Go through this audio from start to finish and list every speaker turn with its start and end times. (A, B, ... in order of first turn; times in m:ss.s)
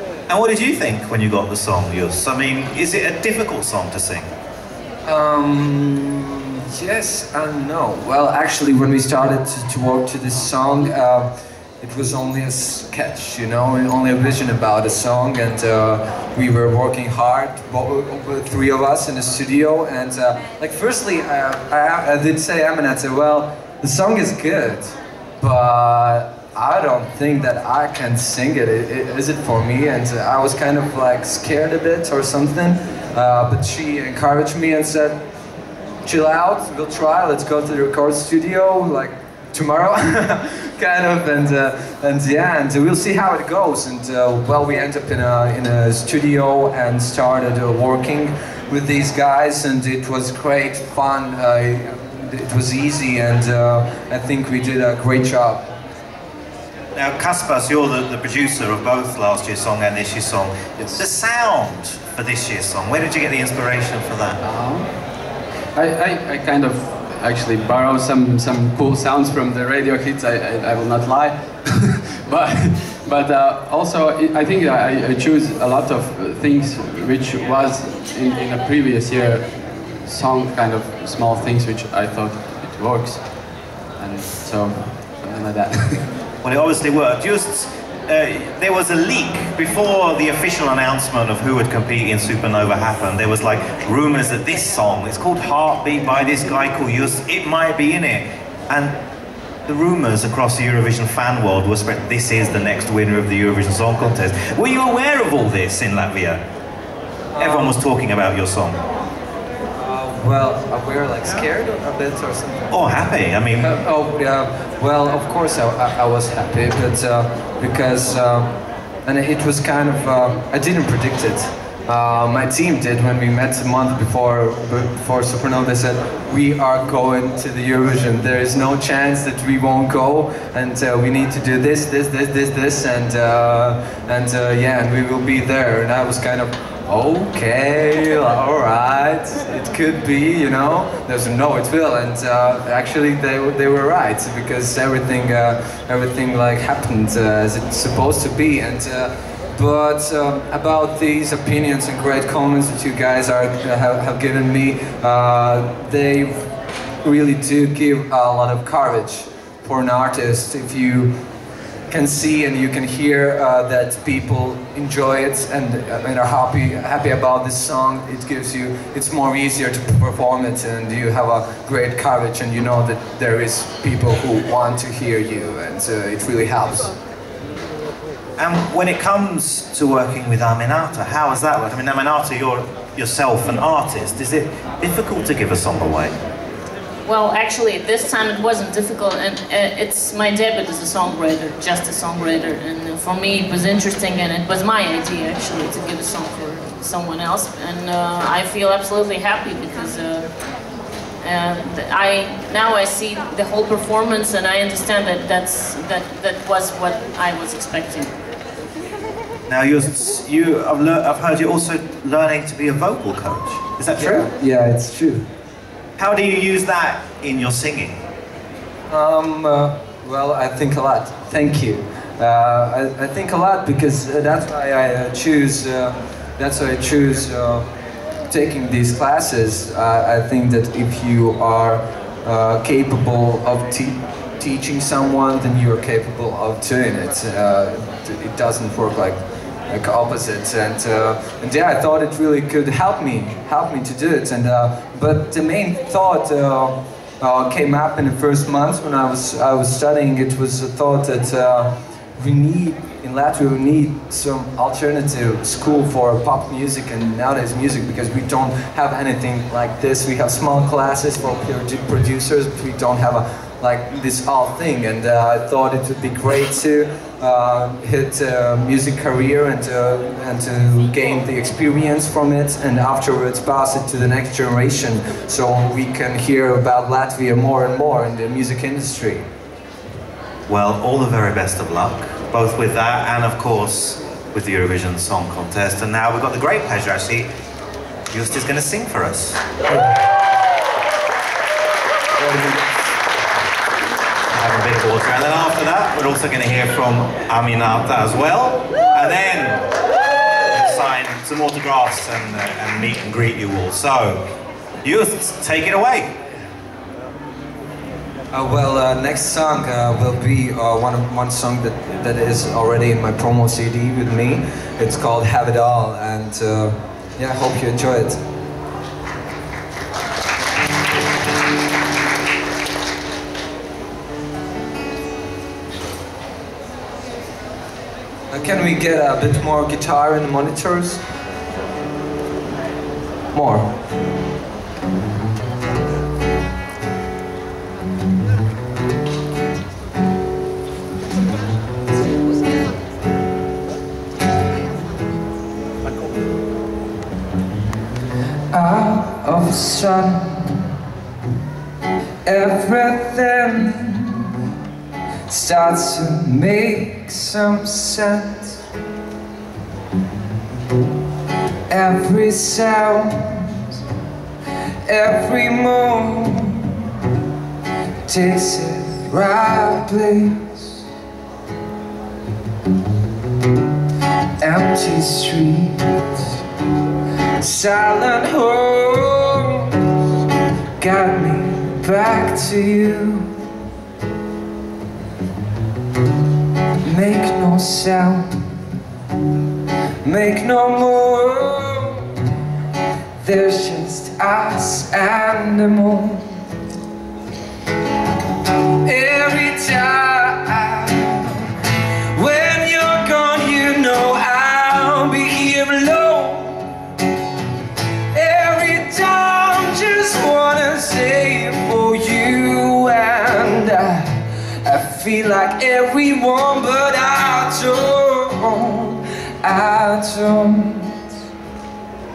0:00.3-0:04.3 A
0:05.1-0:11.3 B
0:11.8-0:35.2 B
0:36.0-0:55.7 B
0:56.9-1:04.4 A
1:04.4-1:26.1 C
1:26.4-1:39.0 A
1:39.6-1:46.4 A
1:47.3-1:47.8 B
1:47.4-1:48.8 A
1:49.8-1:52.8 B
1:52.7-1:53.7 A
1:53.6-2:36.5 B
2:37.0-2:41.1 B
2:41.9-2:56.9 B
2:58.4-3:06.1 A
3:07.0-3:20.3 D
3:21.2-3:28.1 D
3:29.5-3:34.3 A
3:34.0-3:35.2 B
3:36.0-3:38.0 A
3:38.9-3:47.7 B
3:48.3-4:39.2 B
4:40.5-4:47.3 A
4:48.1-4:49.4 A
4:49.7-4:49.9 B
4:52.2-4:52.6 B
4:54.3-4:59.7 A
5:00.4-5:04.2 A
5:04.8-5:06.1 A
5:08.3-5:18.2 B
5:28.3-5:31.0 B
5:33.3-5:33.7 B
5:48.5-5:50.8 B
5:52.2-5:54.4 B
5:55.3-5:58.6 B
6:01.7-6:03.8 B
6:04.8-6:07.0 B
6:08.0-6:10.8 B
6:14.4-6:16.4 B
6:17.4-6:19.9 B
6:20.8-6:23.3 B
6:26.8-6:28.3 B
6:30.0-6:32.2 B
6:33.2-6:36.4 B
6:38.8-6:41.5 B
6:42.1-6:46.7 B
6:48.1-7:01.1 B